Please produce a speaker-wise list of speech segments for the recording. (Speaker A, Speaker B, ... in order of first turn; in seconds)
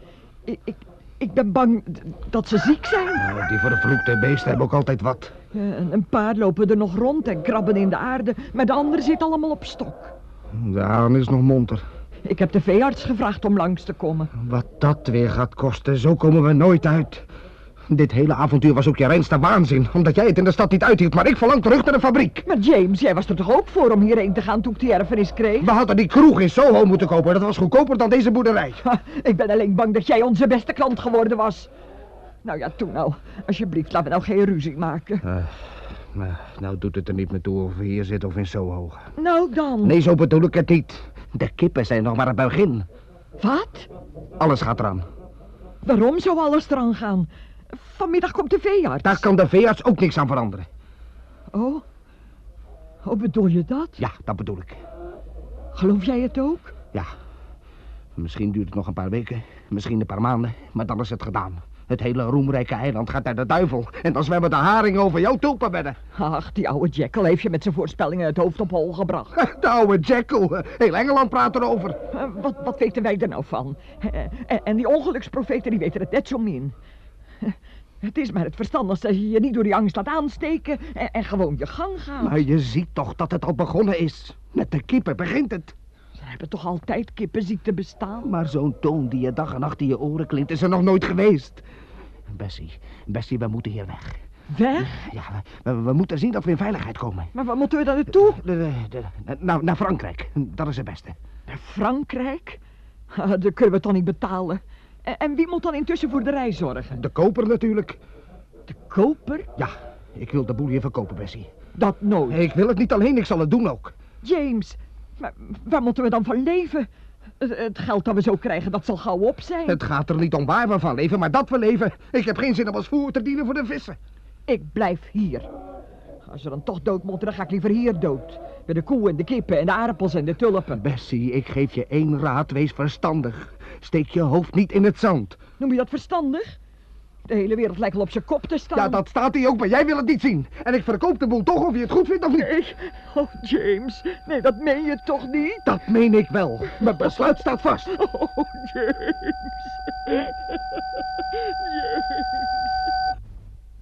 Speaker A: 0.5-3.2, 5.5-10.1, 12.2-14.3, 22.4-25.7, 28.8-31.7, 32.4-35.2, 39.2-40.0, 43.4-43.9, 45.8-49.3, 51.5-51.8, 53.0-54.0, 55.7-56.8, 66.1-69.3, 72.1-76.7, 77.5-82.4, 86.2-88.3, 94.5-95.0, 97.3-98.4, 101.5-102.6, 103.1-107.0, 108.7-109.5, 111.8-112.4, 114.2-116.9, 117.4-119.8, 124.5-125.5, 126.3-130.8, 135.6-136.6, 137.3-139.0, 142.4-145.6, 148.0-149.3
Speaker B: 3.2-5.3, 10.6-11.8, 14.3-17.2, 17.9-22.4, 25.6-28.8, 36.1-39.0, 39.8-42.9, 44.4-45.0, 49.0-50.6, 54.0-54.8, 58.1-66.0, 69.3-72.0, 82.2-85.7, 88.2-91.6, 92.3-94.2, 95.0-97.3, 98.3-101.2, 106.9-108.0, 109.6-111.5, 112.3-113.9, 119.7-124.0, 130.8-135.4, 138.7-142.5, 145.6-147.9